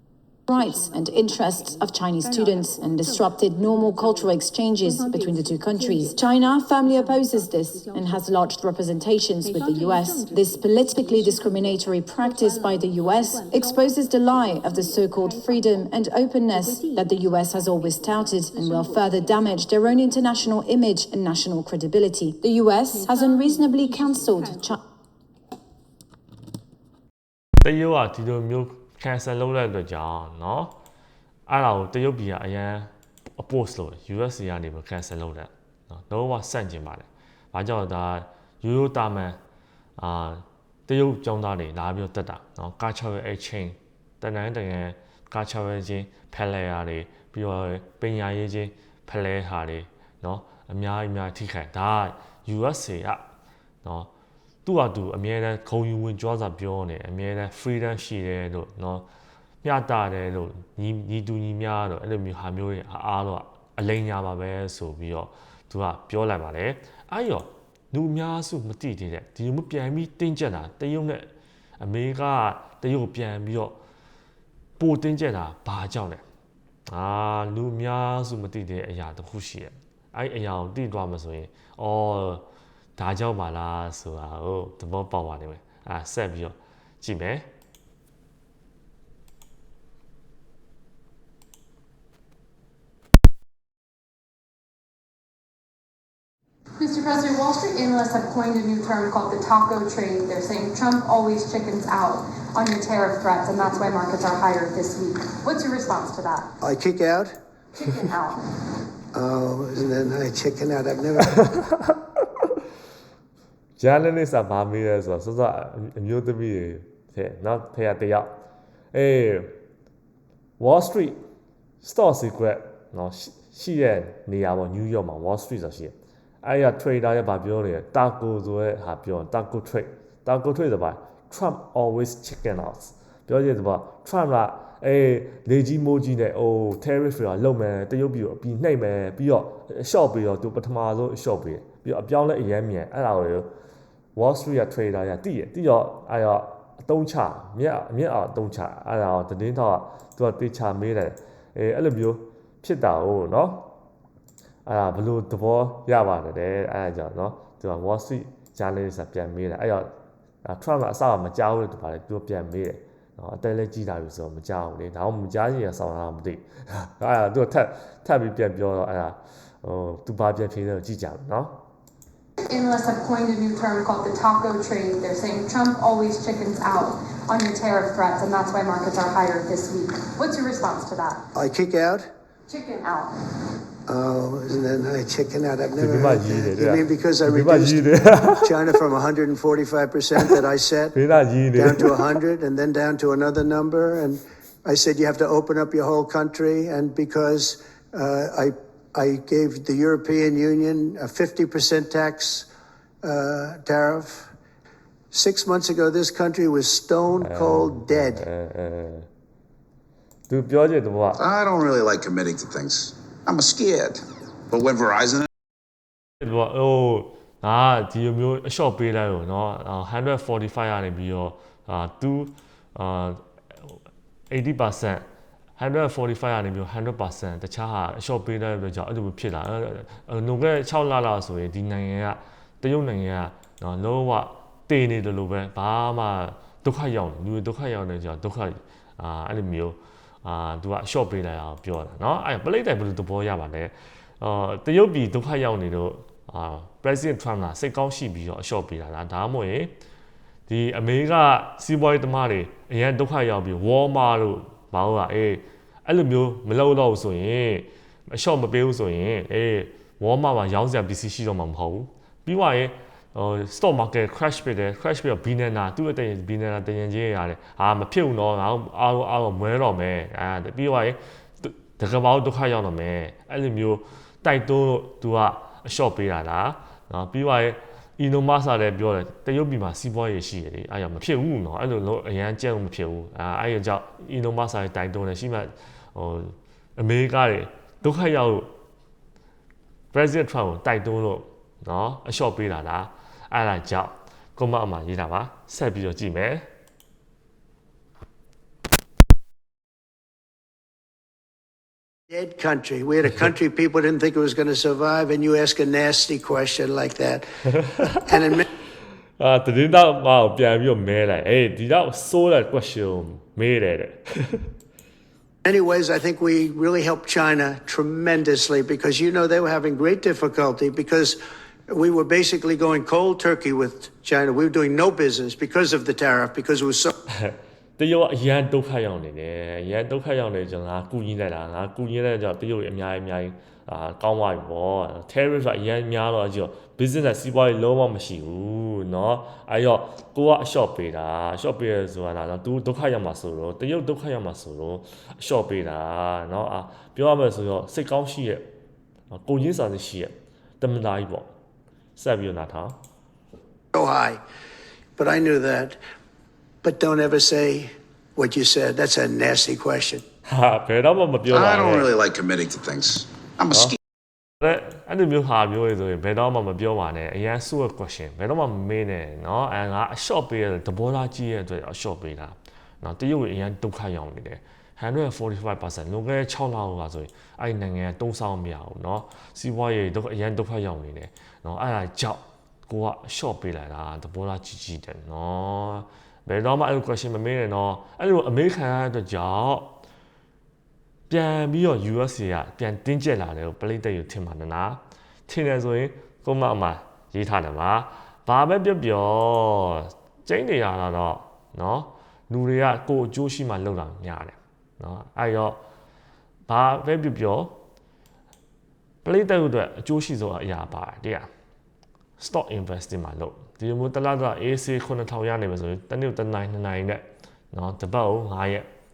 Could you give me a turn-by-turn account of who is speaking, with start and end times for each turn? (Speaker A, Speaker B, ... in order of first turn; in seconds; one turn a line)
Speaker A: 0.5-24.8
Speaker B: 27.6-30.7
Speaker B: 31.5-39.4
Speaker B: 40.0-53.2
Speaker B: 53.8-54.1
Speaker B: 54.6-59.1
Speaker B: 59.6-71.3
Speaker B: 71.8-73.8
Speaker B: 74.8-76.2
Speaker B: 76.9-87.5
Speaker C: 96.8-106.5
Speaker D: 106.6-107.3
Speaker C: 107.7-108.4
Speaker D: 109.1-111.4
Speaker B: 111.3-111.9
Speaker B: 113.8-118.3
Speaker B: 118.9-119.5
Speaker B: 120.6-121.2
Speaker B: 121.8-143.5
Speaker B: 144.1-153.7
Speaker B: 154.6-159.9
Speaker B: 160.4-171.6
Speaker C: 172.4-181.2
Speaker D: 181.3-182.1
Speaker C: 182.5-183.1
Speaker D: 183.9-191.0
Speaker B: 185.8-188.5
Speaker B: 190.9-192.1
Speaker D: 191.5-202.5
Speaker D: 203.0-204.3
Speaker D: 205.1-208.2
Speaker B: 207.2-209.1
Speaker B: 210.3-211.3
Speaker E: 211.1-215.3
Speaker B: 216.2-223.2
Speaker B: 224.3-225.1
Speaker B: 225.6-249.7
Speaker B: 250.5-288.5
Speaker B: 289.9-296.4
Speaker D: 302.1-308.4
Speaker B: 309.2-314.5
Speaker D: 315.4-326.9
Speaker B: 327.1-348.4
Speaker B: 349.1-351.3
Speaker B: 352.0-352.8
Speaker D: 353.7-354.2
Speaker D: 355.0-355.8
Speaker D: 356.6-360.0
Speaker B: 360.3-361.9
Speaker E: 361.3-363.8
Speaker B: 363.5-363.8
Speaker B: 364.4-389.8
Speaker B: 391.1-405.6
Speaker B: 406.5-407.6
Speaker B: 409.0-411.3
Speaker B: 412.2-418.6